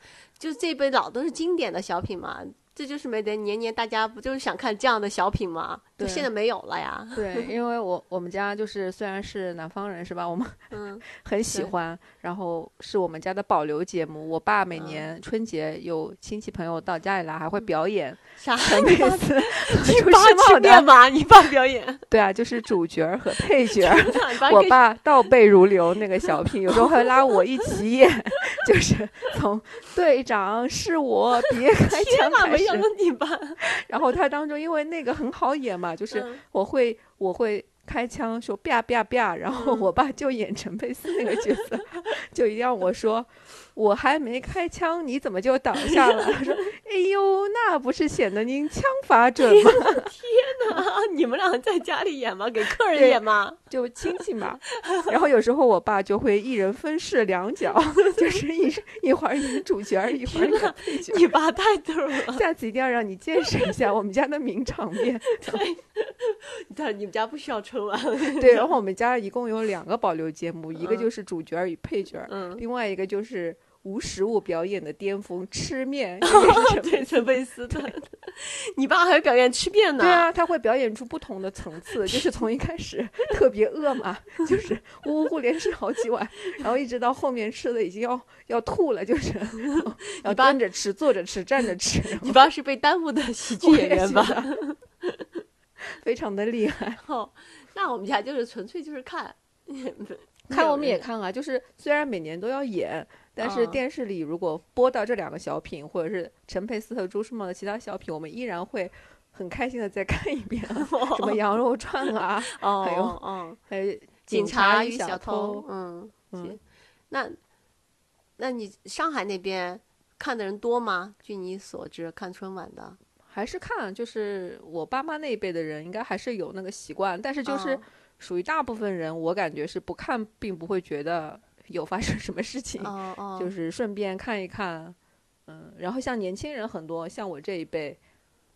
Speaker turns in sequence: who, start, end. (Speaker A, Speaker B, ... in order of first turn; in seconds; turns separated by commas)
Speaker A: 0.4-7.5, Speaker B: 6.0-6.3, Speaker B: 7.2-20.9, Speaker A: 10.7-11.7, Speaker A: 14.7-15.1, Speaker A: 18.4-22.0, Speaker B: 22.1-32.9, Speaker A: 23.7-24.8, Speaker A: 26.7-27.1, Speaker A: 31.7-33.6, Speaker B: 33.6-50.1, Speaker A: 36.1-36.4, Speaker A: 39.5-39.9, Speaker A: 45.8-46.6, Speaker A: 49.4-53.6, Speaker B: 52.9-61.2, Speaker A: 60.3-62.4, Speaker B: 62.3-65.6, Speaker A: 65.3-68.7, Speaker B: 68.4-77.9, Speaker A: 70.8-71.1, Speaker A: 72.3-72.6, Speaker A: 76.2-80.3, Speaker B: 80.0-92.4, Speaker A: 89.8-90.6, Speaker A: 92.2-95.2, Speaker B: 93.6-94.5, Speaker B: 95.9-97.0, Speaker A: 97.0-101.0, Speaker B: 100.5-115.7, Speaker A: 103.4-103.8, Speaker A: 110.7-111.4, Speaker A: 112.5-113.6, Speaker A: 114.3-116.6, Speaker A: 117.1-117.4, Speaker A: 118.4-123.0, Speaker B: 123.3-135.0, Speaker A: 127.5-127.8, Speaker A: 132.8-133.5, Speaker B: 135.5-138.0